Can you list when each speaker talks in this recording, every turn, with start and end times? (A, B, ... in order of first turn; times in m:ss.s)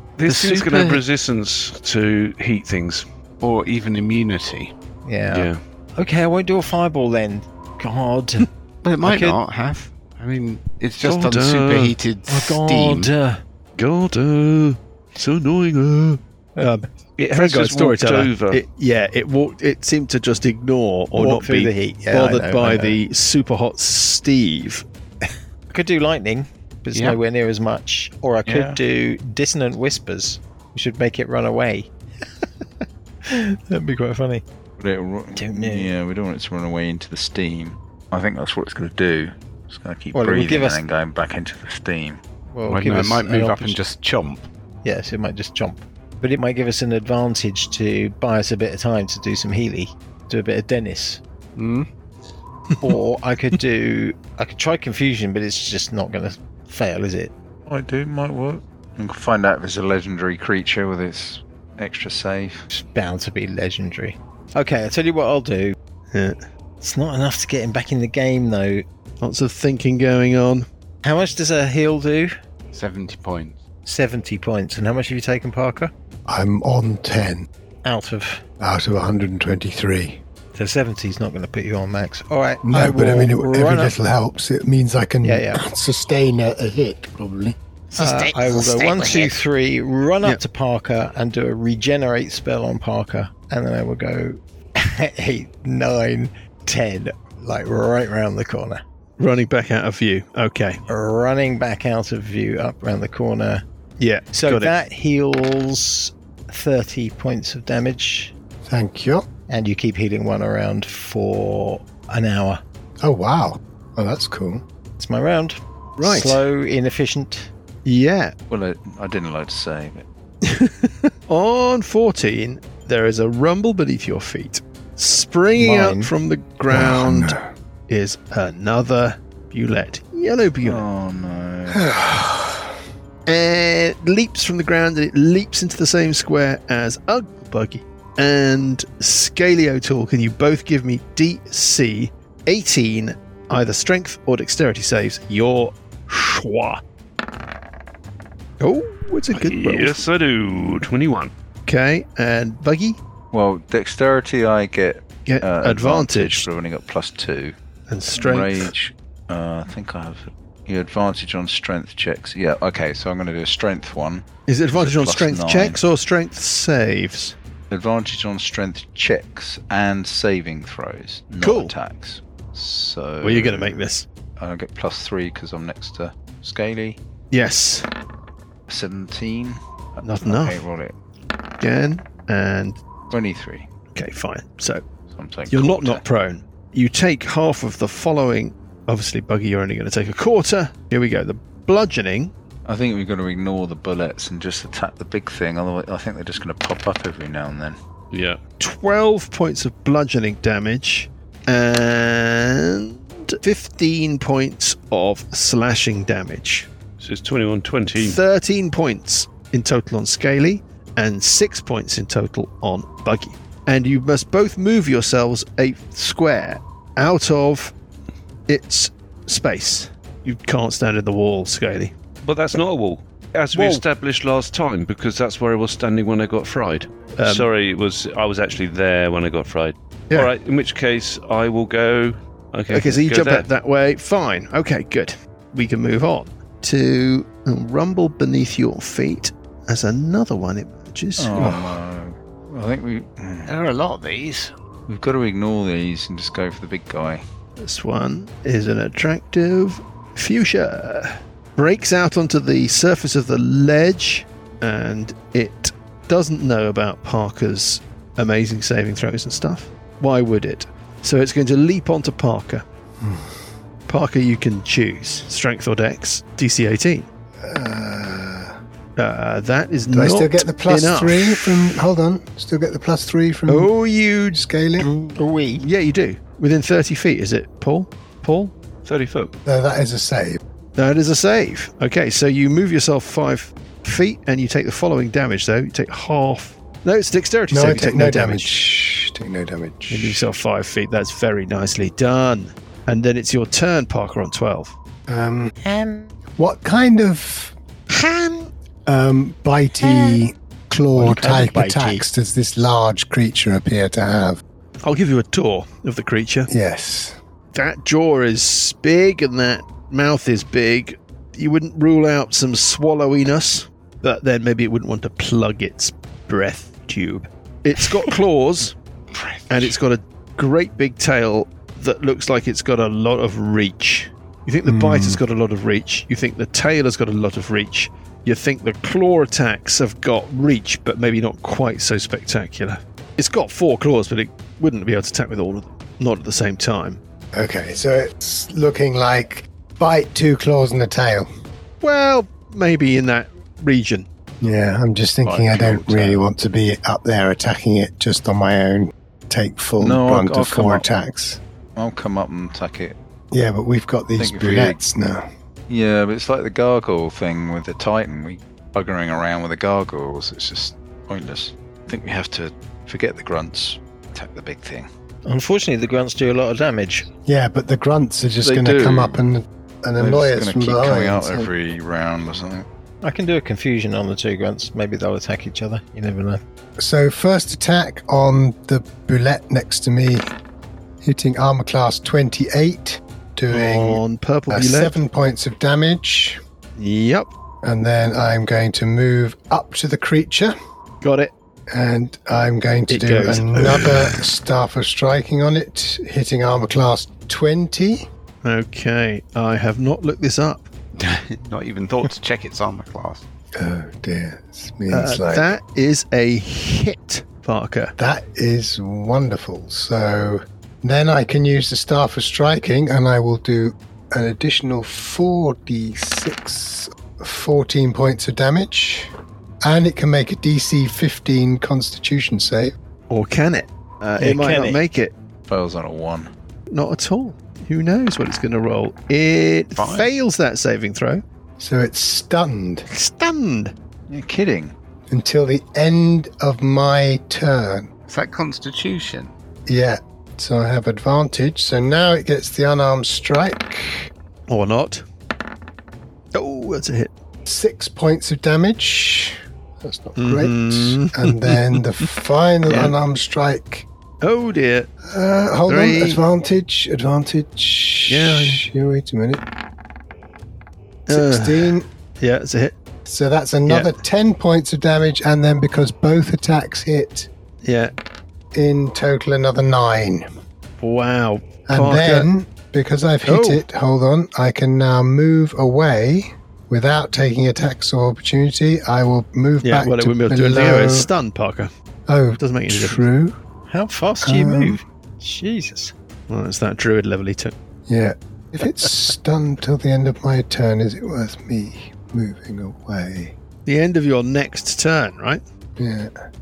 0:00.2-0:03.1 A
0:00.2-0:01.0 B
0:03.4-0:04.7 B
0:05.0-0:08.5 C
0:05.3-0:05.6 A
0:08.8-0:13.1 B
0:09.0-0:09.4 C
0:11.0-0:12.0 A
0:12.3-0:13.4 C
0:13.8-0:16.2 A
0:16.6-0:24.8 D
0:17.2-0:18.6 A
0:21.1-0:23.0 C
0:25.7-0:31.9 C
0:28.5-0:28.8 E
0:33.2-0:34.4 C
0:34.8-0:42.2 E
0:35.4-0:35.9 C
0:40.1-0:40.8 C
0:42.5-0:43.8 C
0:42.6-0:44.5 B
0:44.8-0:51.2 C
0:51.6-0:51.9 B
0:52.8-0:57.3 C
0:57.7-1:02.7 E
1:02.7-1:05.8 C
1:06.1-1:06.4 D
1:06.8-1:08.8 C
1:09.2-1:10.7 D
1:11.0-1:12.3 C
1:12.7-1:13.6 B
1:13.8-1:15.9 C
1:16.3-1:17.5 F
1:17.8-1:18.4 C
1:18.6-1:20.2 F
1:20.5-1:23.9 C
1:22.6-1:27.6 F
1:25.2-1:25.6 C
1:27.9-1:29.3 B
1:28.0-1:38.8 C
1:39.2-1:40.8 D
1:40.9-1:43.6 C
1:44.0-1:44.8 D
1:44.3-1:48.3 C
1:48.6-1:49.2 F
1:49.5-1:52.6 C
1:53.0-1:54.6 F
1:55.0-1:57.5 C
1:56.0-1:56.4 D
1:57.8-1:58.3 D
1:58.5-2:00.0 E
2:00.4-2:07.4 D
2:05.6-2:06.1 C
2:06.7-2:07.5 F
2:07.9-2:10.8 D
2:10.6-2:12.1 E
2:11.7-2:12.7 F
2:13.2-2:26.8 D
2:28.6-2:30.0 D
2:29.3-2:31.3 A
2:31.6-2:33.0 D
2:33.3-2:37.5 E
2:35.2-2:36.5 D
2:37.9-2:38.7 D
2:38.1-2:45.8 E
2:44.5-2:47.4 D
2:47.7-2:53.8 E
2:51.4-2:51.7 D
2:53.2-2:54.0 D
2:54.4-2:57.0 E
2:57.3-2:57.9 D
2:58.7-3:00.9 E
3:00.0-3:00.6 D
3:01.6-3:02.8 D
3:03.1-3:03.7 E
3:03.9-3:04.8 D
3:05.1-3:06.0 E
3:05.5-3:12.3 D
3:12.6-3:17.8 E
3:18.1-3:18.4 A
3:18.6-3:26.7 D
3:27.0-3:28.2 A
3:27.9-3:37.7 D
3:38.5-3:41.9 D
3:42.2-3:53.5 A
3:43.5-3:43.8 D
3:47.1-3:47.5 D
3:52.7-4:01.6 D
4:01.2-4:03.5 E
4:01.4-4:01.7 F
4:03.4-4:04.5 B
4:04.9-4:07.2 E
4:07.6-4:22.6 D
4:23.0-4:23.4 F
4:23.9-4:27.1 D
4:27.4-4:28.6 F
4:29.0-4:31.8 D
4:29.9-4:33.7 F
4:33.5-4:34.4 D
4:34.3-4:34.9 F
4:34.8-4:35.7 C
4:35.6-4:38.5 D
4:38.8-4:39.3 A
4:39.4-4:40.4 F
4:40.8-4:48.5 D
4:47.5-4:50.3 F
4:49.9-4:54.7 D
4:55.1-4:55.5 F
4:55.6-4:56.1 C
4:56.4-4:57.5 F
4:57.9-4:58.5 C
4:58.8-5:04.4 F
4:59.8-5:00.2 C
5:00.9-5:02.0 C
5:04.8-5:06.5 D
5:06.5-5:07.2 F
5:07.5-5:18.7 D
5:19.1-5:19.7 B
5:19.5-5:37.0 D
5:24.6-5:25.2 F
5:37.3-5:41.3 F
5:41.8-5:44.1 D
5:44.4-5:51.4 F
5:49.8-5:50.8 E
5:51.8-5:53.0 E
5:53.3-5:55.3 F
5:54.2-5:54.8 E
5:55.7-6:04.9 E
6:05.2-6:07.1 C
6:07.3-6:11.5 F
6:10.0-6:12.7 E
6:13.0-6:16.4 C
6:16.8-6:20.3 F
6:21.0-6:26.4 F
6:23.5-6:25.0 D
6:26.8-6:27.3 D
6:27.6-6:30.5 F
6:31.0-6:31.3 D
6:31.7-6:38.1 F
6:32.9-6:34.2 D
6:38.4-6:40.7 D
6:41.0-6:43.2 B
6:43.6-6:45.6 F
6:44.9-6:47.9 D
6:48.0-6:59.1 F
6:59.6-7:02.7 F
7:03.1-7:05.1 D
7:04.2-7:04.8 C
7:05.5-7:06.3 E
7:06.7-7:11.2 D
7:09.8-7:10.1 B
7:11.6-7:12.8 F
7:12.9-7:13.7 D
7:14.1-7:14.7 E
7:15.1-7:17.9 F
7:18.1-7:19.3 B
7:19.7-7:24.1 F
7:24.5-7:25.0 D
7:26.3-7:27.1 D
7:27.4-7:33.9 F
7:30.2-7:31.8 D
7:32.7-7:33.0 D
7:34.2-7:34.9 D
7:35.1-7:39.4 F
7:35.7-7:36.2 D
7:38.1-7:38.6 D
7:41.1-7:42.7 D
7:41.1-7:41.9 F
7:43.0-7:47.3 F
7:43.7-7:43.9 D
7:47.6-7:47.9 D
7:48.5-7:50.3 F
7:50.8-7:52.3 D
7:51.7-8:01.1 F
7:53.2-7:53.6 D
7:59.6-8:01.7 D
8:02.1-8:03.4 F
8:02.4-8:03.1 D
8:03.7-8:05.9 C
8:04.2-8:04.8 F
8:06.3-8:07.5 D
8:07.9-8:13.3 F
8:13.6-8:15.4 D
8:15.8-8:16.1 F